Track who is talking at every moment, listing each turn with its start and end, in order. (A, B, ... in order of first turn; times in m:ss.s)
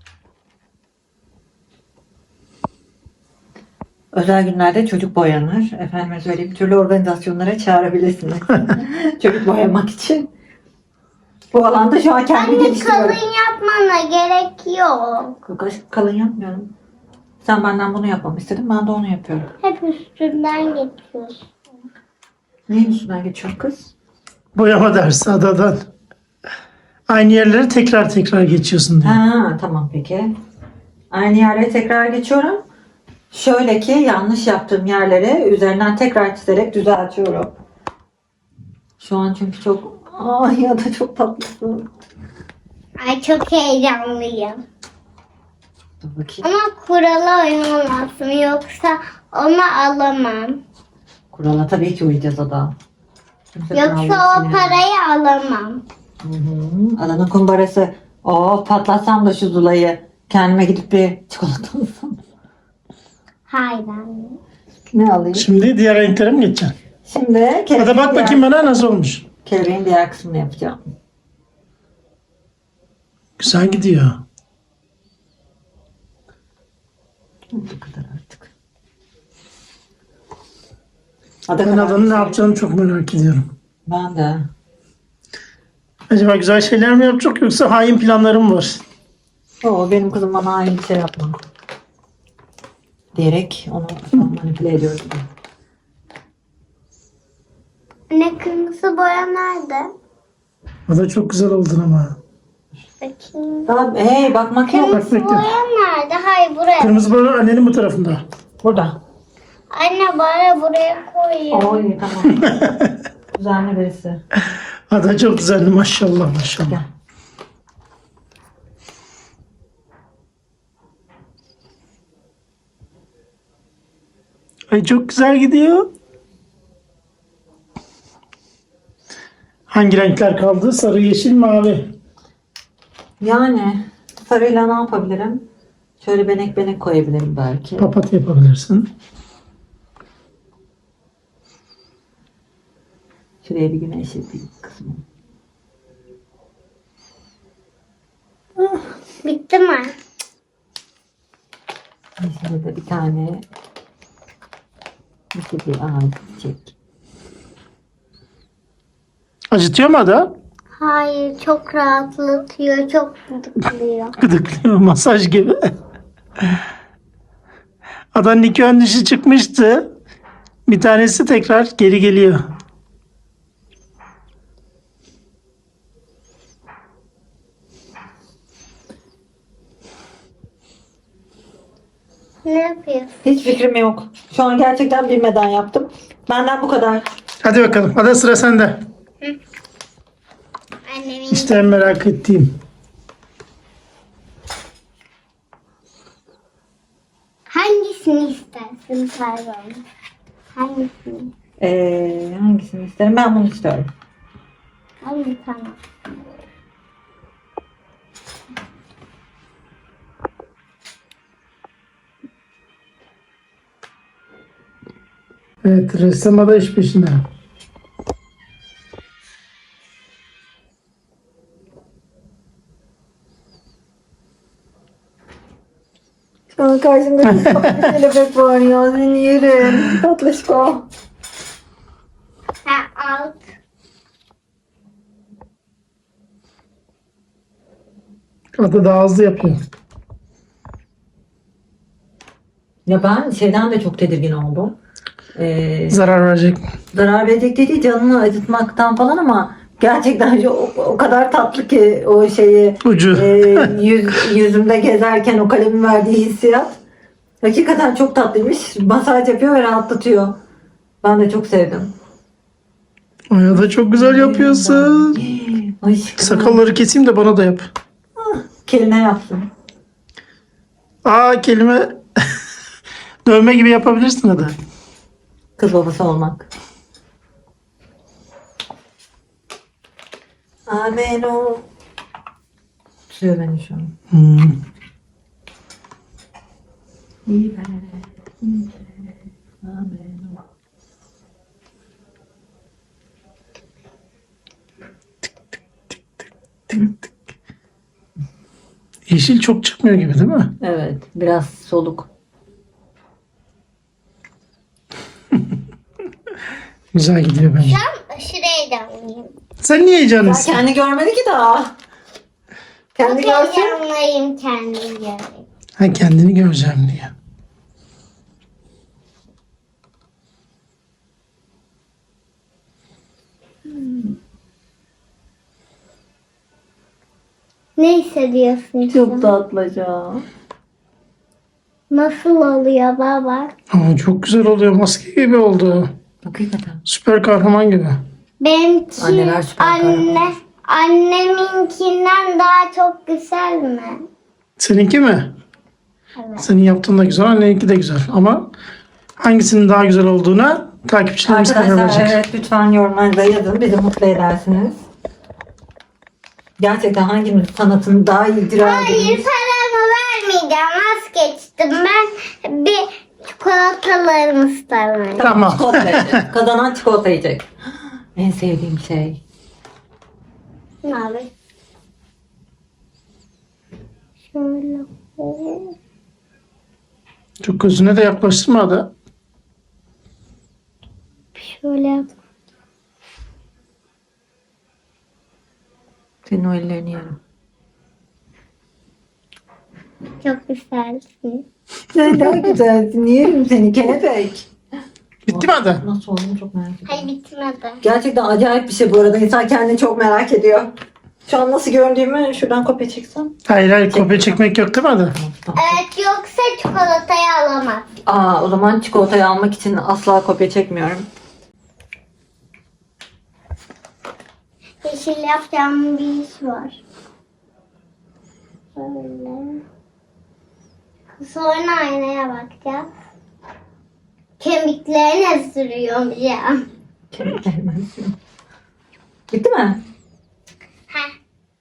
0:04.1-0:10.3 A
0:11.5-0:13.2 A
0:12.3-0:15.4 B
0:15.5-0:16.7 A
0:17.4-0:19.5 A
0:19.6-0:21.4 B
0:22.7-0:23.9 A
0:24.5-0:25.8 C
0:27.1-0:29.2 C
0:29.0-0:30.3 A
0:31.1-0:32.6 A
0:33.3-0:37.5 A
0:39.0-0:41.9 A
0:43.0-0:44.6 B
0:46.0-0:46.5 A
0:46.4-0:50.6 B
0:51.3-0:52.7 A
0:53.5-0:54.8 A
0:53.7-0:55.8 B
0:56.2-1:02.2 A
1:03.5-1:04.4 B
1:04.9-1:05.6 A
1:05.3-1:06.8 C
1:07.0-1:08.5 A
1:07.8-1:09.2 C
1:09.4-1:10.8 A
1:13.4-1:14.2 C
1:17.5-1:18.5 A
1:21.5-1:22.4 A
1:21.6-1:23.5 C
1:23.8-1:24.5 A
1:26.1-1:28.8 C
1:29.6-1:31.4 A
1:33.2-1:35.2 A
1:38.1-1:39.9 B
1:40.9-1:42.2 C
1:43.0-1:43.8 B
1:43.7-1:45.0 A
1:44.7-1:47.1 B
1:44.9-1:45.5 C
1:46.8-1:48.2 C
1:48.6-1:49.0 A
1:49.7-1:51.9 B
1:51.5-1:52.7 A
1:52.4-1:52.9 C
1:53.3-1:54.2 A
1:54.9-1:56.8 C
1:56.6-1:56.9 A
2:04.7-2:05.9 C
2:09.7-2:11.9 C
2:13.2-2:15.4 A
2:16.0-2:17.9 A
2:17.8-2:18.9 C
2:23.4-2:25.0 A
2:28.6-2:28.9 A
2:29.2-2:30.0 B
2:32.2-2:33.4 A
2:35.3-2:36.7 A
2:39.5-2:40.3 C
2:40.8-2:44.2 B
2:44.2-2:45.6 C
2:48.1-2:49.9 C
2:50.7-2:52.4 C
3:02.4-3:03.1 B
3:03.2-3:07.1 A
3:07.4-3:08.8 C
3:10.9-3:12.0 B
3:11.3-3:12.5 C
3:17.5-3:19.8 B
3:20.6-3:21.3 B
3:21.6-3:23.9 A
3:25.0-3:25.8 B
3:35.6-3:37.2 C
3:46.5-3:50.9 A
3:52.6-3:53.4 B
3:58.6-3:59.6 C
4:02.8-4:04.7 A
4:05.3-4:06.0 A
4:05.9-4:06.6 C
4:06.9-4:16.8 A
4:12.8-4:13.7 C
4:17.4-4:20.4 A
4:21.0-4:21.9 A
4:23.3-4:25.2 C
4:23.5-4:26.7 A
4:26.2-4:27.7 C
4:28.2-4:29.5 A
4:31.0-4:32.0 C
4:33.2-4:34.5 C
4:35.6-4:36.5 A
4:40.7-4:41.6 A
4:43.1-4:43.9 A
4:44.1-4:44.6 C
4:47.2-4:48.9 A
4:49.6-4:50.4 A
4:59.1-5:00.5 C
5:00.6-5:02.1 A
5:06.9-5:07.8 C
5:07.6-5:09.3 B
5:09.6-5:10.6 C
5:10.2-5:11.7 A
5:13.0-5:13.8 A
5:13.0-5:15.4 B
5:15.8-5:17.1 C
5:23.8-5:24.0 A
5:27.8-5:29.4 B
5:28.9-5:30.2 A
5:31.9-5:33.5 B
5:33.7-5:35.9 C
5:36.2-5:36.8 A
5:36.9-5:38.0 C
5:38.4-5:44.0 B
5:39.0-5:40.3 A
5:44.6-5:45.3 C
5:46.2-5:46.5 B
5:46.4-5:48.5 C
5:49.2-5:52.2 C
5:51.2-5:54.8 A
5:56.6-5:59.3 A
5:58.6-6:05.4 B
6:05.2-6:07.5 A
6:05.2-6:06.2 C
6:08.2-6:09.2 A
6:10.8-6:11.3 B
6:14.3-6:15.7 B
6:17.4-6:18.9 C
6:21.4-6:22.1 B
6:26.2-6:27.2 A
6:30.2-6:31.4 B
6:31.9-6:34.5 A
6:35.3-6:37.1 A
6:35.3-6:35.8 C
6:36.8-6:37.8 B
6:37.8-6:40.7 A
6:41.2-6:44.5 A
6:43.5-6:45.1 C
6:45.1-6:45.8 A
6:45.6-6:47.9 B
6:48.0-6:51.1 A
6:54.8-6:56.8 B
6:58.8-6:59.6 B
7:01.2-7:02.9 B
7:04.4-7:06.6 B
7:07.1-7:08.2 A
7:09.3-7:09.8 A